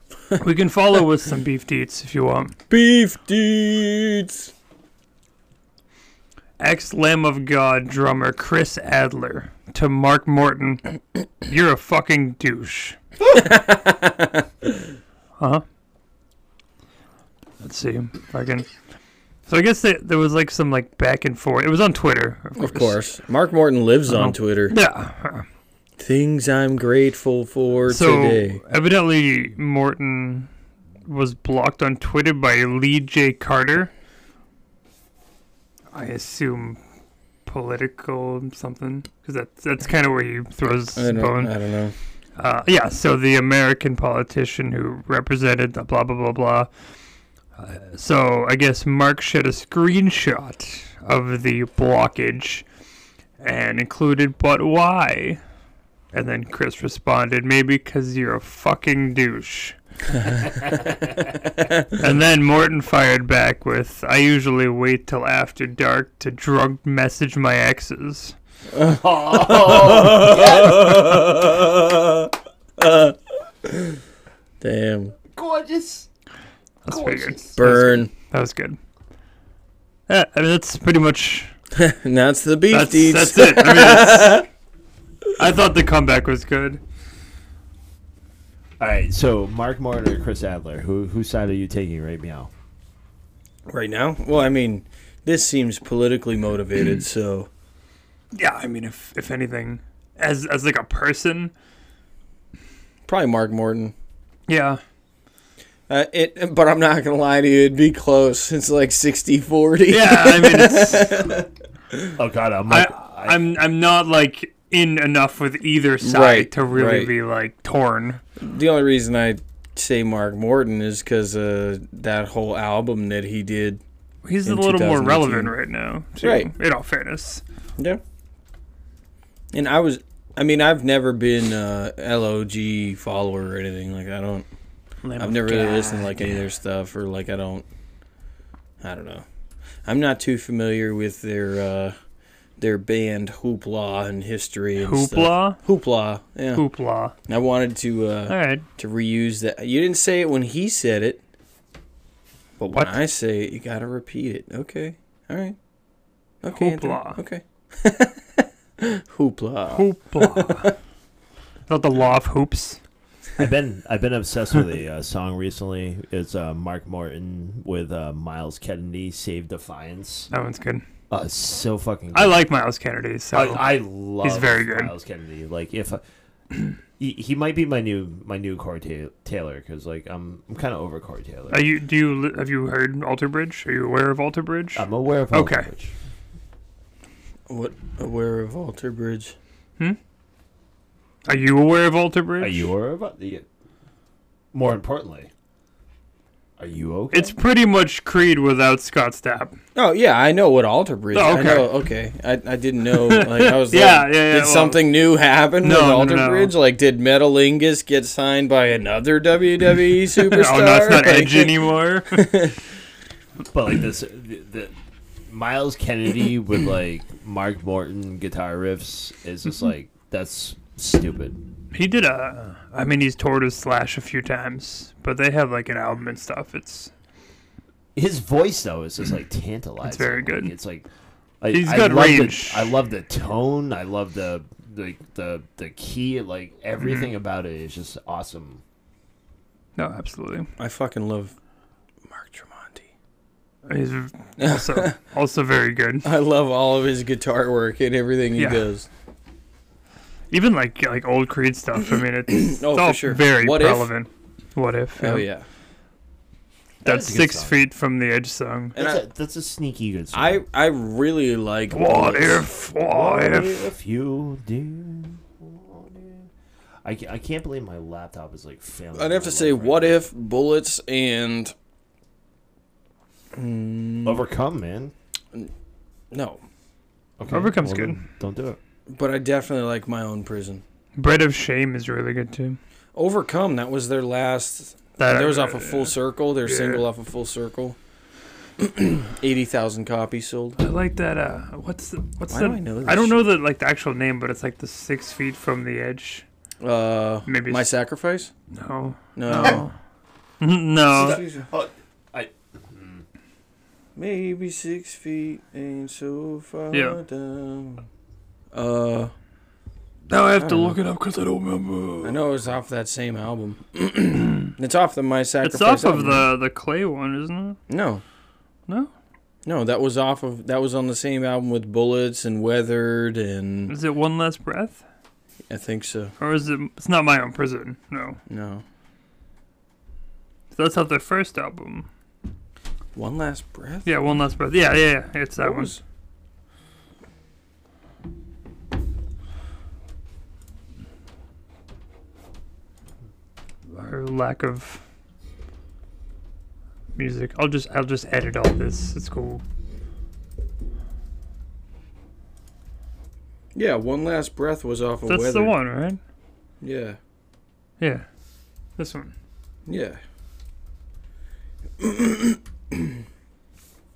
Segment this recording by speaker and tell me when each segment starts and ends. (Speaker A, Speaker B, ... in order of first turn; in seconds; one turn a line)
Speaker A: 0.3-2.5
Speaker B: 2.7-4.5
Speaker A: 6.6-13.0
Speaker B: 13.2-14.8
Speaker A: 15.4-15.6
Speaker A: 17.6-18.7
Speaker A: 19.5-23.0
Speaker B: 22.6-24.8
Speaker A: 24.1-25.5
Speaker B: 26.0-28.6
Speaker A: 27.9-30.5
Speaker A: 31.1-33.9
Speaker A: 35.9-36.8
Speaker A: 37.5-41.5
Speaker B: 41.0-41.9
Speaker A: 42.4-46.7
Speaker A: 47.6-52.6
Speaker A: 53.4-55.4
Speaker A: 56.1-59.8
Speaker C: 60.6-61.1
Speaker A: 61.9-68.4
Speaker B: 68.7-74.0
Speaker C: 68.8-70.9
Speaker B: 74.6-75.2
Speaker C: 75.3-76.1
Speaker A: 76.8-78.8
Speaker C: 76.9-77.6
Speaker B: 77.6-78.1
Speaker A: 80.1-81.5
Speaker B: 81.8-84.5
Speaker A: 82.7-84.5
Speaker A: 85.4-86.8
Speaker C: 88.8-92.5
Speaker B: 93.7-97.5
Speaker A: 98.3-101.5
Speaker B: 103.1-103.9
Speaker A: 104.5-104.8
Speaker B: 105.9-112.1
Speaker A: 109.9-111.3
Speaker C: 112.2-113.4
Speaker A: 112.7-118.2
Speaker B: 116.0-117.1
Speaker B: 118.4-123.8
Speaker A: 124.2-127.4
Speaker B: 124.5-125.5
Speaker B: 126.2-126.5
Speaker B: 129.5-134.5
Speaker A: 135.0-136.3
Speaker B: 135.2-137.6
Speaker B: 138.8-139.2
Speaker B: 139.8-141.9
Speaker B: 142.6-146.7
Speaker A: 144.8-145.6
Speaker A: 146.5-147.1
Speaker B: 147.3-151.2
Speaker A: 148.3-148.7
Speaker B: 152.6-155.6
Speaker A: 152.7-152.9
Speaker B: 156.4-160.7
Speaker A: 156.5-157.2
Speaker A: 159.7-160.7
Speaker A: 161.7-162.8
Speaker C: 163.4-170.3
Speaker A: 170.3-170.8
Speaker C: 171.1-172.4
Speaker A: 172.1-174.9
Speaker C: 173.3-176.0
Speaker C: 177.0-181.7
Speaker A: 181.5-185.7
Speaker C: 184.8-185.9
Speaker B: 187.5-189.3
Speaker A: 191.3-192.7
Speaker C: 192.4-193.4
Speaker C: 194.5-195.3
Speaker C: 196.6-197.3
Speaker A: 197.1-199.6
Speaker B: 199.8-212.6
Speaker A: 201.1-201.7
Speaker A: 203.0-204.8
Speaker A: 205.6-206.5
Speaker A: 210.2-212.4
Speaker C: 213.5-214.8
Speaker C: 215.3-221.4
Speaker A: 221.7-226.9
Speaker C: 228.0-230.9
Speaker A: 229.8-230.5
Speaker C: 231.4-238.6
Speaker A: 231.5-232.7
Speaker A: 236.8-237.1
Speaker A: 239.8-240.5
Speaker B: 240.6-241.3
Speaker B: 242.1-242.9
Speaker A: 243.7-246.1
Speaker B: 244.4-245.0
Speaker B: 246.0-248.9
Speaker A: 248.4-248.7
Speaker A: 250.3-255.3
Speaker B: 252.3-253.9
Speaker B: 255.0-255.5
Speaker C: 256.8-257.6
Speaker A: 256.8-258.8
Speaker B: 258.8-259.0
Speaker C: 258.8-260.4
Speaker B: 260.1-262.5
Speaker A: 261.7-263.7
Speaker C: 262.9-266.3
Speaker C: 266.8-270.0
Speaker B: 268.9-271.5
Speaker B: 273.3-274.2
Speaker C: 274.0-274.9
Speaker B: 276.1-276.4
Speaker C: 277.2-278.6
Speaker A: 277.3-278.0
Speaker B: 278.9-280.6
Speaker A: 281.0-282.6
Speaker B: 282.9-287.8
Speaker A: 285.0-286.9
Speaker B: 288.6-290.6
Speaker A: 290.6-296.2
Speaker B: 292.3-293.2
Speaker B: 296.6-298.3
Speaker A: 297.3-297.7
Speaker A: 298.5-299.7
Speaker B: 299.1-299.7
Speaker A: 300.4-301.2
Speaker C: 300.9-303.0
Speaker B: 300.9-301.5
Speaker B: 304.0-307.9
Speaker A: 306.7-307.0
Speaker B: 308.5-309.1
Speaker A: 310.1-312.2
Speaker B: 310.4-310.8
Speaker B: 312.0-316.3
Speaker A: 315.4-317.6
Speaker B: 317.7-318.0
Speaker B: 319.4-323.8
Speaker A: 323.7-324.8
Speaker B: 325.5-326.1
Speaker A: 326.2-328.2
Speaker B: 328.3-328.6
Speaker A: 330.5-331.9
Speaker B: 332.9-333.9
Speaker A: 333.9-335.7
Speaker B: 335.4-335.8
Speaker A: 343.7-344.8
Speaker A: 346.9-349.4
Speaker B: 353.6-355.5
Speaker A: 355.1-356.0
Speaker B: 356.6-357.0
Speaker A: 357.8-358.1
Speaker A: 358.8-359.1
Speaker B: 359.7-360.0
Speaker B: 361.8-363.0